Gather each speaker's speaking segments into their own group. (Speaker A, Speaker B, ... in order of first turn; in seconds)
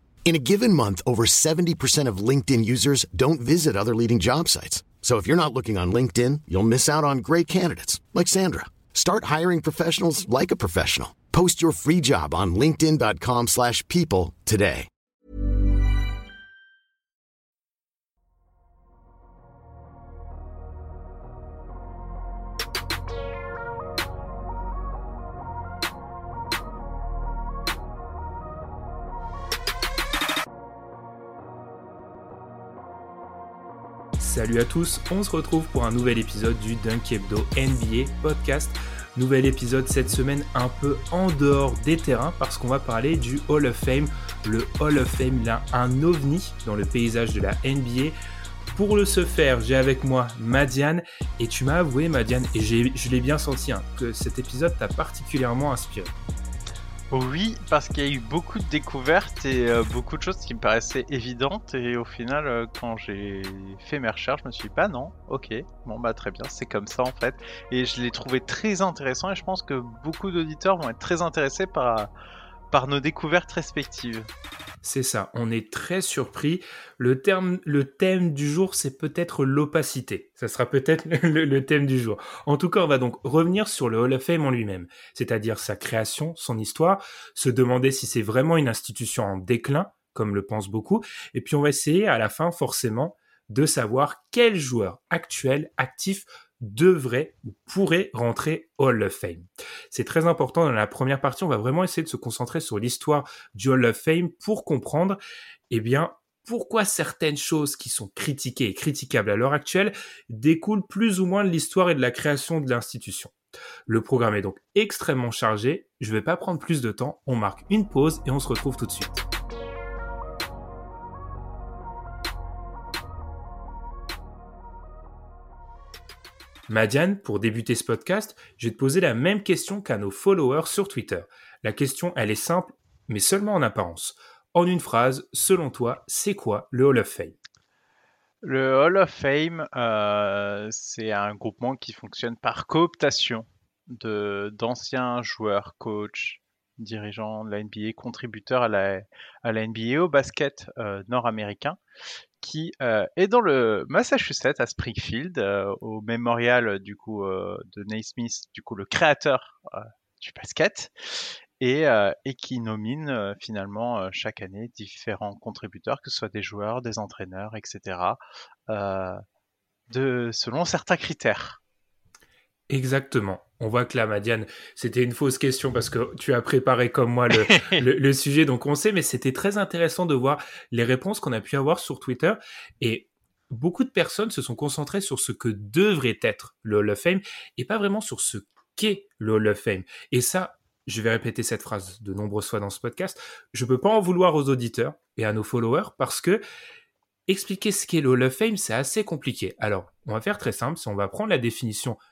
Speaker A: 0.3-14.9
Speaker B: 34.2-48.2, 48.7-56.1, 74.8-105.2, 105.7-113.3, 113.9-119.2, 126.7-137.4, 172.7-196.4, 197.3-202.0
Speaker C: 57.1-72.1, 72.7-74.3, 138.4-151.8, 152.4-168.2, 168.7-169.2, 169.9-171.6, 177.3-177.8